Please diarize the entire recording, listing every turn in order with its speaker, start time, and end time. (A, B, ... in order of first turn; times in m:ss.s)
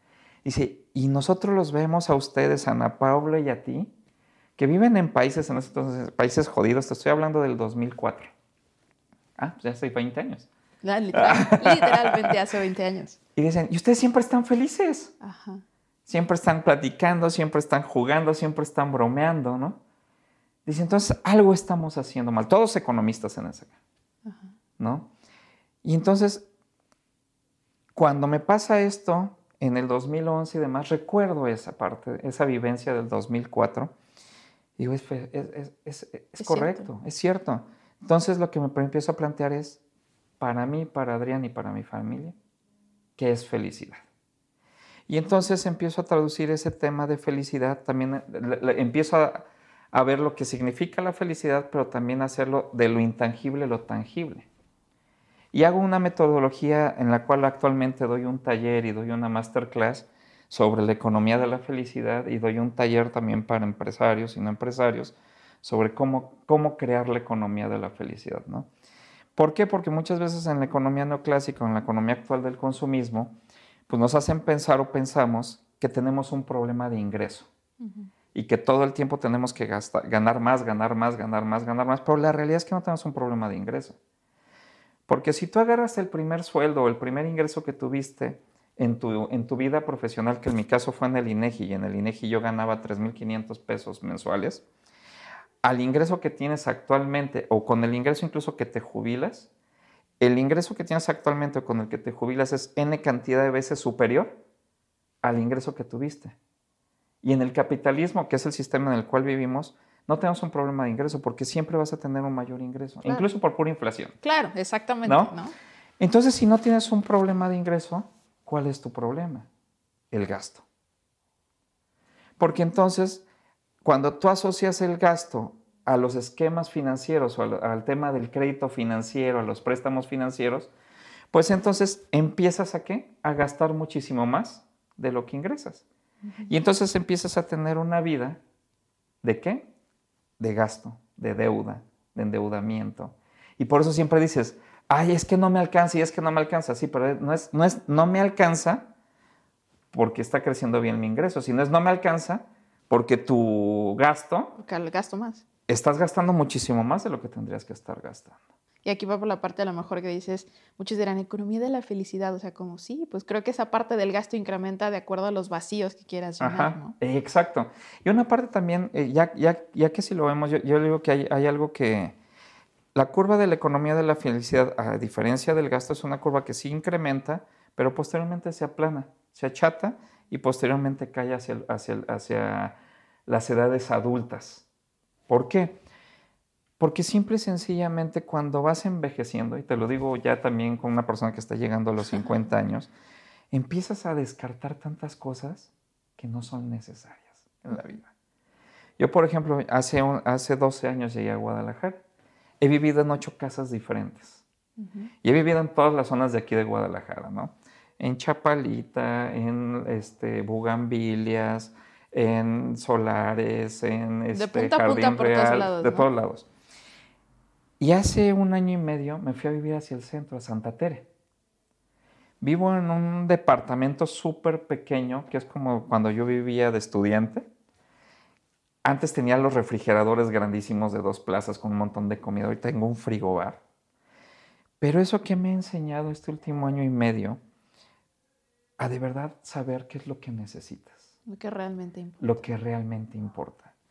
0:00.4-0:03.9 A
0:04.6-0:08.3 A
0:09.4-0:10.5 A
0:10.8-0:13.2 B
0:11.1-0:12.3 A
0:13.4-0:15.1 A
0:15.2-0:15.6 B
0:16.1-0:19.8 A
0:20.6-0:23.7 A
0:24.2-0:24.5 B
0:24.8-0:25.1 A
0:25.8-0:26.5 A
0:27.9-0:33.9 A
0:34.8-0:39.8 A
0:36.4-0:36.9 B
0:40.4-0:42.4 A
0:43.2-0:44.0 A
0:45.1-0:54.5 A
0:55.5-1:08.7 A
1:09.4-1:13.4 A
1:13.9-1:17.5 A
1:17.8-1:18.1 B
1:18.3-1:24.0 A
1:25.1-1:34.6 A
1:35.6-1:39.5 A
1:40.2-1:44.4 A
1:45.2-1:46.4 A
1:47.2-1:54.1 A
1:54.2-1:55.5 B
1:55.0-1:55.3 A
1:56.0-1:59.5 A
2:00.1-2:00.6 A
2:02.4-2:03.2 A
2:03.8-2:10.7 A
2:11.3-2:15.8 A
2:16.2-2:16.5 B
2:16.5-2:18.4 A
2:19.2-2:19.7 A
2:20.4-2:28.9 A
2:29.9-2:34.5 A
2:34.6-2:35.4 B
2:35.7-2:38.3 A
2:38.8-2:46.9 B
2:46.4-2:52.1 A
2:52.9-3:04.6 A
3:05.3-3:05.8 A
3:06.8-3:12.9 A
3:13.5-3:18.1 A
3:19.0-3:22.0 A
3:22.6-3:24.4 A
3:24.8-3:25.1 B
3:25.2-3:36.4 A
3:34.3-3:36.1 B
3:37.8-3:41.1 A
3:42.4-3:47.5 A
3:48.8-3:53.6 A
3:54.8-3:57.4 A
3:58.8-4:01.0 A
4:01.3-4:02.5 B
4:02.2-4:03.7 A